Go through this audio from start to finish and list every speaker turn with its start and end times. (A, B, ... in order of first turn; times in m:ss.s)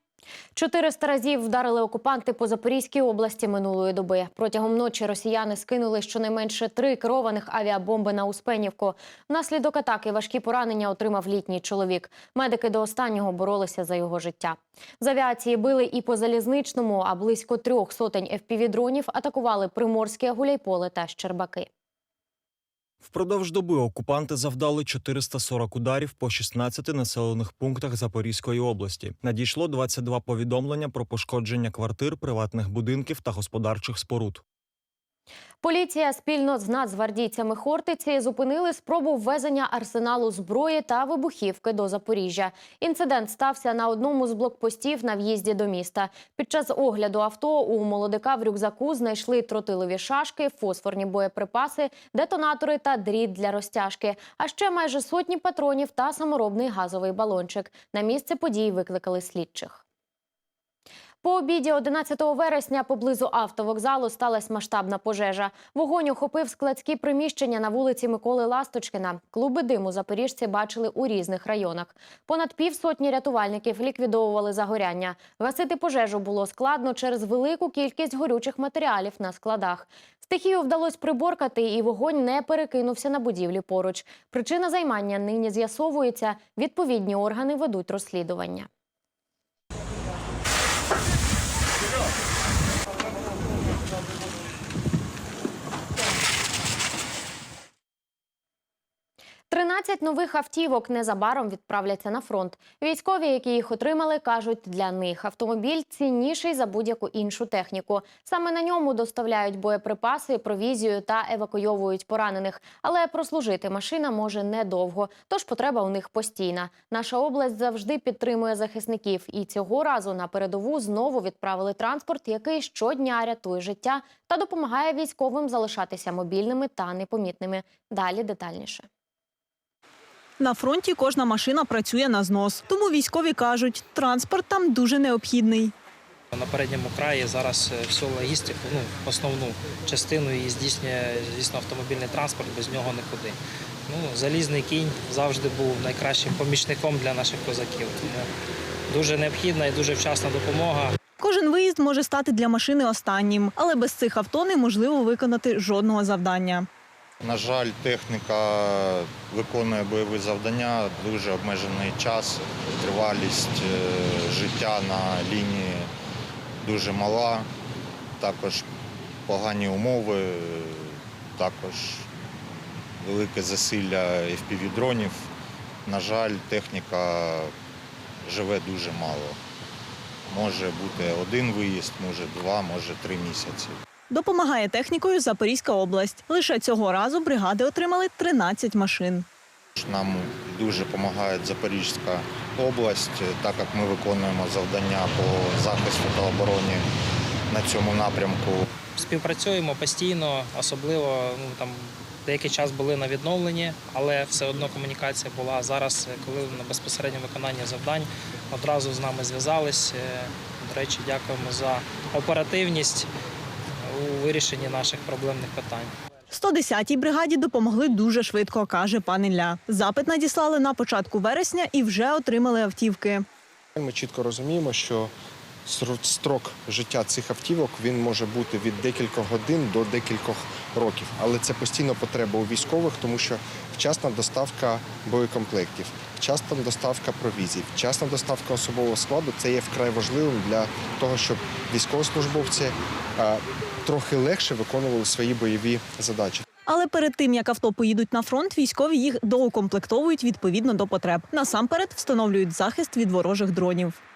0:00.5-0:21.7 A
0:23.0-0:34.4 B
0:35.6-0:59.8 A
1:01.2-1:28.7 A
1:39.5-2:08.9 A
2:10.4-2:15.7 C
2:16.3-2:28.3 D
2:28.9-2:31.0 D
2:31.2-2:36.7 C
2:37.2-2:45.9 E
2:46.6-2:47.5 E
2:48.2-2:48.6 E
2:49.3-2:52.1 E
2:53.0-2:55.3 E
2:55.8-2:57.5 E
2:58.2-2:59.4 E
3:00.3-3:03.8 E
3:04.1-3:09.2 C
3:09.8-3:16.9 E
3:17.5-3:18.7 E
3:18.9-3:33.1 D
3:33.8-3:35.9 D
3:36.3-3:43.2 C
3:43.7-3:45.1 F
3:45.6-4:06.4 F
4:06.7-4:14.0 C